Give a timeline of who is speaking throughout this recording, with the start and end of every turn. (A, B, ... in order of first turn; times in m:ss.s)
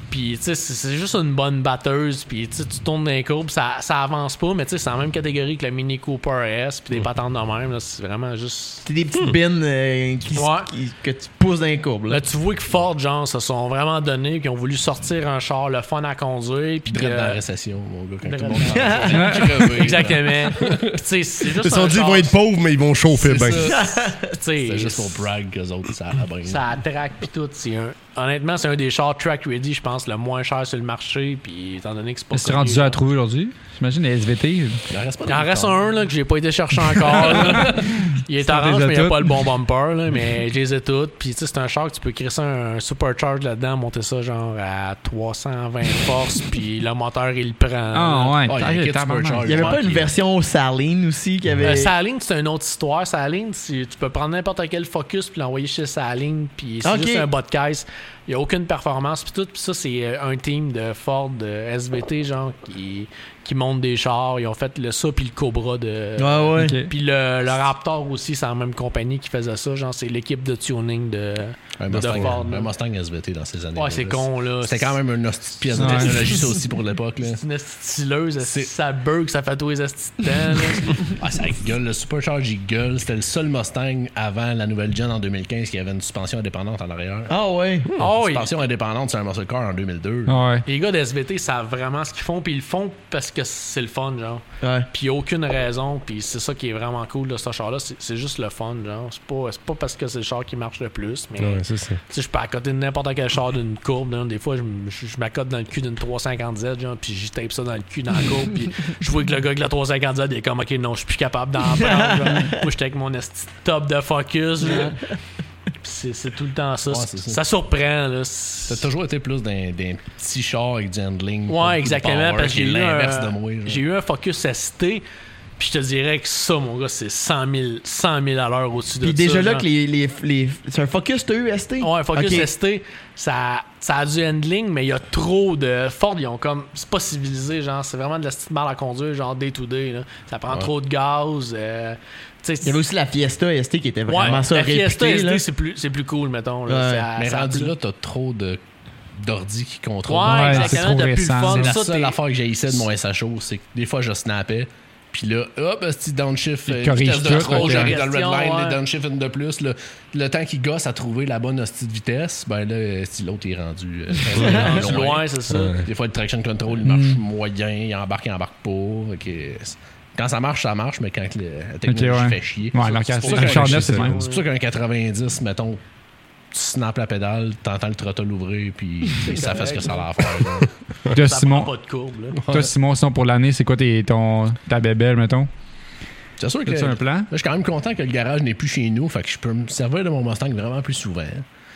0:00.1-0:08.9 A
0:08.8-0:12.2 B
0:10.3-0:10.7 A
0:12.1-0:17.4 A
0:16.9-0:21.0 C
0:18.2-0:22.4 A
0:18.6-0:19.5 B
0:19.1-0:19.5 D
0:21.6-0:23.8 E
0:23.1-0:26.6 C
0:23.7-0:24.3 B
0:24.2-0:25.3 A
0:26.4-0:33.0 A
0:32.3-0:34.8 D
0:34.9-0:35.8 C
0:35.2-0:48.5 A
0:37.0-0:37.7 C
0:37.4-0:39.4 D
0:47.9-0:49.8 D
0:48.5-0:50.1 C
0:49.4-0:51.9 B
0:51.6-1:12.7 A
0:56.8-0:57.3 B
1:06.2-1:06.8 B
1:06.6-1:06.9 D
1:11.8-1:17.4 C
1:13.8-1:15.0 A
1:15.8-1:16.4 D
1:15.8-1:16.4 A
1:17.2-1:21.2 A
1:18.4-1:18.7 C
1:21.2-1:27.3 C
1:27.3-1:27.9 B
1:27.9-1:30.4 C
1:28.0-1:28.5 A
1:30.3-1:30.7 D
1:30.6-1:55.1 A
1:34.6-1:34.9 B
1:41.4-1:42.0 E
1:51.8-1:52.6 B
1:55.8-1:58.9 A
1:56.9-1:57.4 C
1:58.7-2:03.8 C
2:01.5-2:05.0 A
2:05.6-2:09.7 A
2:09.0-2:12.5 B
2:11.8-2:22.8 A
2:22.6-2:25.4 B
2:24.1-2:27.7 A
2:26.7-2:27.1 B
2:27.2-2:28.6 C
2:29.1-2:55.8 C
2:30.1-2:32.8 A
2:30.2-2:31.7 D
2:36.7-2:38.0 D
2:37.3-2:38.8 A
2:44.3-2:45.8 A
2:44.4-2:44.8 B
2:45.5-2:45.8 E
2:46.8-2:47.2 D
2:51.9-2:54.3 D
2:52.8-2:54.5 A
2:53.7-2:54.1 E
2:56.5-3:00.7 C
2:59.2-3:00.1 A
3:01.1-3:01.7 D
3:01.2-3:02.4 A
3:02.4-3:02.7 C
3:02.5-3:05.5 D
3:06.4-3:11.4 C
3:06.6-3:07.3 D